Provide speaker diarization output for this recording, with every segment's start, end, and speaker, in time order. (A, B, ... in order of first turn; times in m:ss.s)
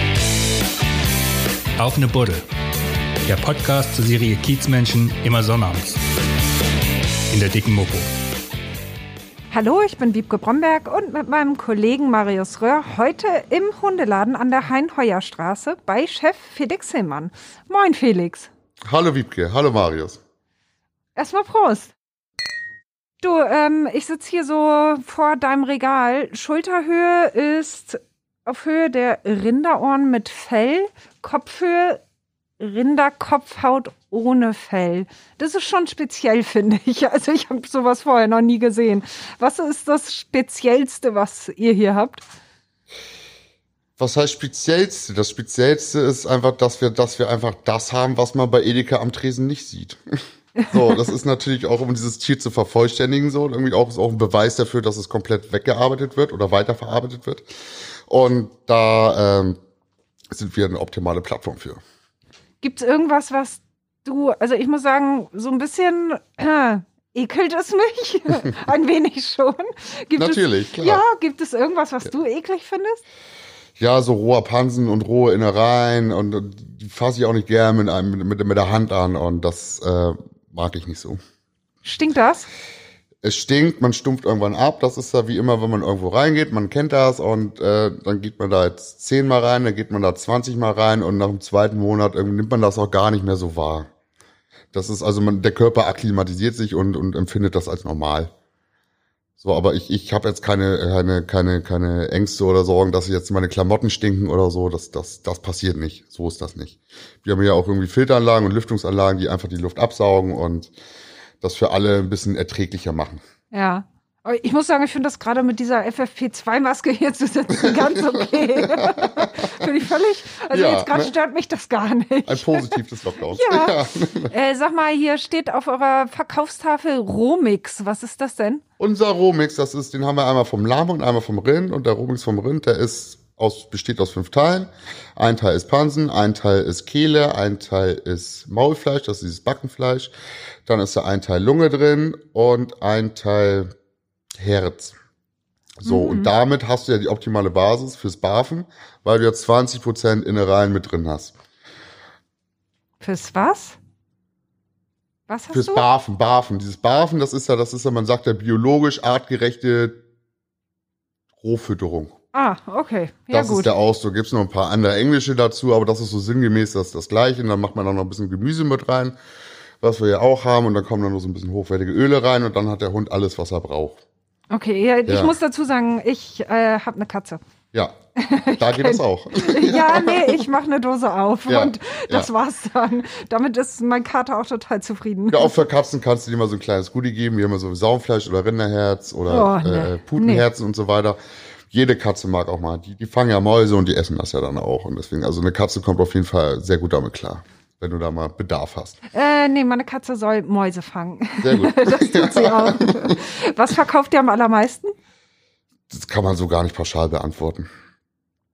0:01.8-0:02.4 A
0:03.2-0:06.0 A
0:07.3-0:08.1 A
0:09.5-0:18.5 B
0:18.9-0:20.2 C
0:21.2-0:21.9 B
0:23.2-0:32.0 B
0:32.6-0:42.2 B
0:44.0-0:50.0 C
0:50.6-0:50.9 B
0:50.7-0:57.5 C
0:58.1-0:59.6 C
1:00.3-1:01.8 C
1:02.6-1:13.0 B
1:10.2-1:11.0 C
1:13.8-1:21.2 C
1:21.8-1:22.5 B
1:23.2-1:33.9 C
1:34.7-1:38.3 C
1:39.4-1:50.7 C
1:51.4-1:53.2 C
1:53.5-2:03.8 B
1:57.5-1:59.7 C
2:00.5-2:01.1 C
2:02.2-2:04.3 C
2:04.3-2:08.6 B
2:08.8-2:20.1 C
2:20.6-2:23.7 C
2:24.4-2:24.9 C
2:25.8-2:31.3 C
2:25.8-2:26.3 B
2:33.0-2:33.8 B
2:35.3-2:35.8 B
2:35.5-2:40.0 C
2:41.4-2:42.1 C
2:42.3-2:43.7 B
2:43.3-2:49.1 C
2:49.8-2:54.0 C
2:54.5-2:57.4 B
2:55.1-2:55.3 C
2:58.2-3:05.5 B
2:58.6-3:00.5 C
3:01.5-3:02.3 C
3:05.3-3:11.2 C
3:09.3-3:10.5 B
3:11.7-3:19.0 C
3:19.1-3:24.9 B
3:21.4-3:23.2 C
3:25.9-3:27.7 C